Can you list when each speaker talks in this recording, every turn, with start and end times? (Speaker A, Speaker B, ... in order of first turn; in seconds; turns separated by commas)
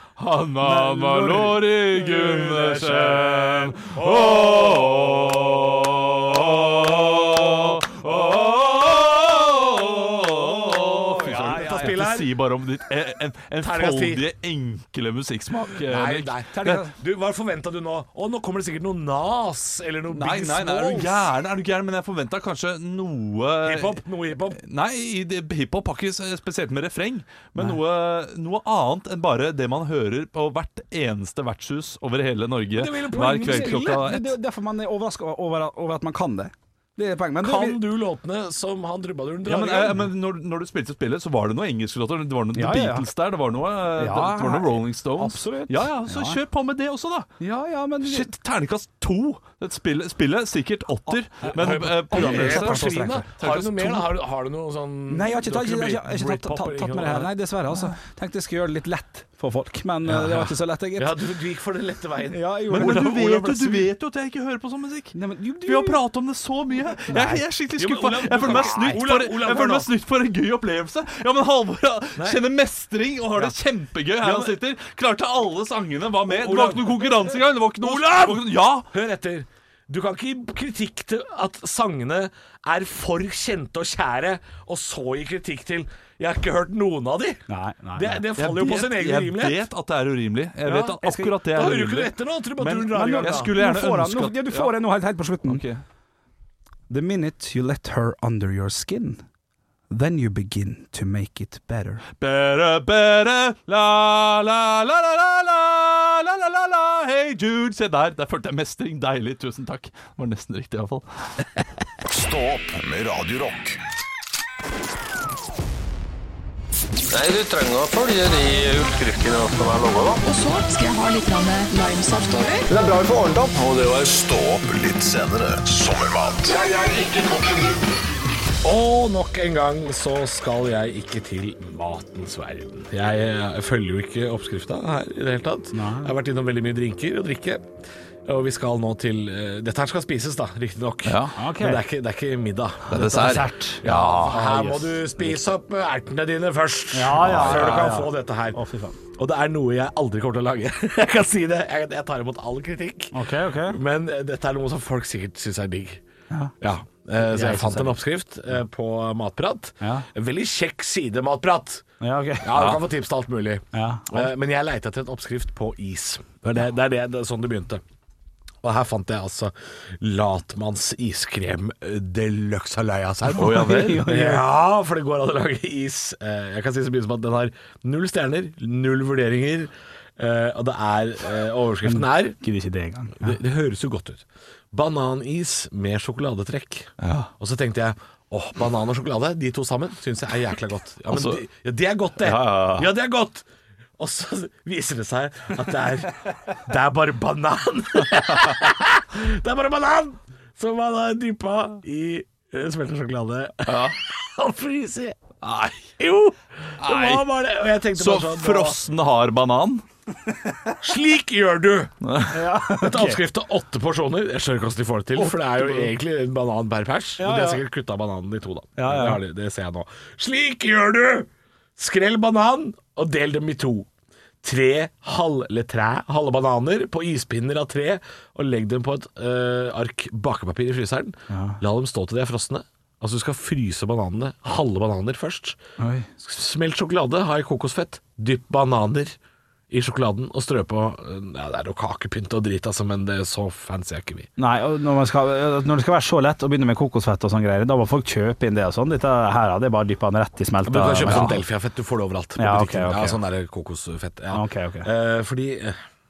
Speaker A: 0.2-16.8, Speaker B: 0.6-1.7, Speaker C: 2.1-5.3, Speaker C: 10.8-12.3, Speaker B: 11.2-12.0, Speaker C: 13.6-14.2, Speaker C: 15.8-21.1, Speaker B: 16.5-16.9, Speaker A: 20.1-24.0, Speaker C: 23.6-24.6, Speaker A: 24.5-34.3, Speaker C: 32.7-34.0, Speaker B: 33.1-37.8, Speaker C: 37.4-40.1, Speaker A: 39.4-47.3, Speaker B: 42.5-43.1, Speaker B: 44.0-46.4, Speaker B: 47.4-48.3, Speaker A: 48.0-54.1, Speaker B: 51.1-53.3, Speaker C: 51.5-57.3, Speaker B: 55.1-61.2, Speaker C: 60.1-63.0, Speaker B: 62.3-63.9, Speaker A: 62.7-78.9, Speaker B: 65.1-66.0, Speaker B: 67.1-67.4, Speaker C: 67.8-69.9, Speaker B: 68.5-69.0, Speaker C: 72.2-72.4, Speaker C: 74.2-74.5, Speaker C: 76.3-87.4, Speaker B: 87.5-88.2, Speaker C: 87.9-89.6, Speaker A: 88.4-94.8, Speaker B: 90.6-91.8, Speaker C: 91.5-93.5, Speaker B: 92.9-95.6, Speaker A: 95.5-95.8, Speaker B: 96.9-99.2, Speaker B: 99.9-102.0, Speaker A: 102.2-111.0, Speaker D: 112.0-113.8, Speaker E: 117.1-120.2, Speaker F: 120.2-122.7, Speaker D: 122.7-127.7, Speaker B: 122.7-123.4, Speaker C: 128.6-137.7, Speaker B: 135.7-136.1, Speaker C: 138.2-156.0, Speaker A: 141.0-141.4, Speaker B: 141.3-141.8, Speaker A: 142.9-144.7, Speaker B: 143.0-143.8, Speaker B: 144.6-144.8, Speaker B: 146.9-148.9, Speaker A: 147.2-147.9, Speaker B: 153.1-153.8, Speaker C: 156.6-161.8, Speaker B: 157.2-158.0, Speaker B: 159.8-160.1, Speaker B: 162.0-162.5, Speaker C: 162.4-167.8, Speaker A: 162.5-162.8, Speaker B: 163.7-164.3, Speaker C: 168.6-182.4, Speaker B: 173.2-174.4, Speaker A: 173.3-174.1, Speaker B: 181.8-183.3, Speaker C: 183.2-193.4, Speaker A: 187.0-187.3, Speaker A: 191.1-191.4, Speaker A: 192.2-192.9, Speaker C: 194.0-208.8, Speaker A: 203.7-203.9, Speaker A: 205.4-205.9, Speaker A: 206.8-207.3, Speaker A: 207.9-209.8, Speaker C: 210.8-212.0, Speaker A: 212.0-212.4, Speaker B: 212.3-213.2, Speaker C: 212.8-223.9, Speaker B: 215.2-215.9, Speaker B: 217.2-217.6, Speaker B: 218.8-219.2, Speaker C: 224.4-235.6, Speaker B: 231.3-231.6, Speaker B: 235.8-236.1, Speaker C: 236.2-239.1, Speaker C: 239.7-244.3, Speaker B: 244.4-251.4, Speaker C: 250.7-255.8, Speaker B: 252.4-253.2, Speaker B: 254.3-254.9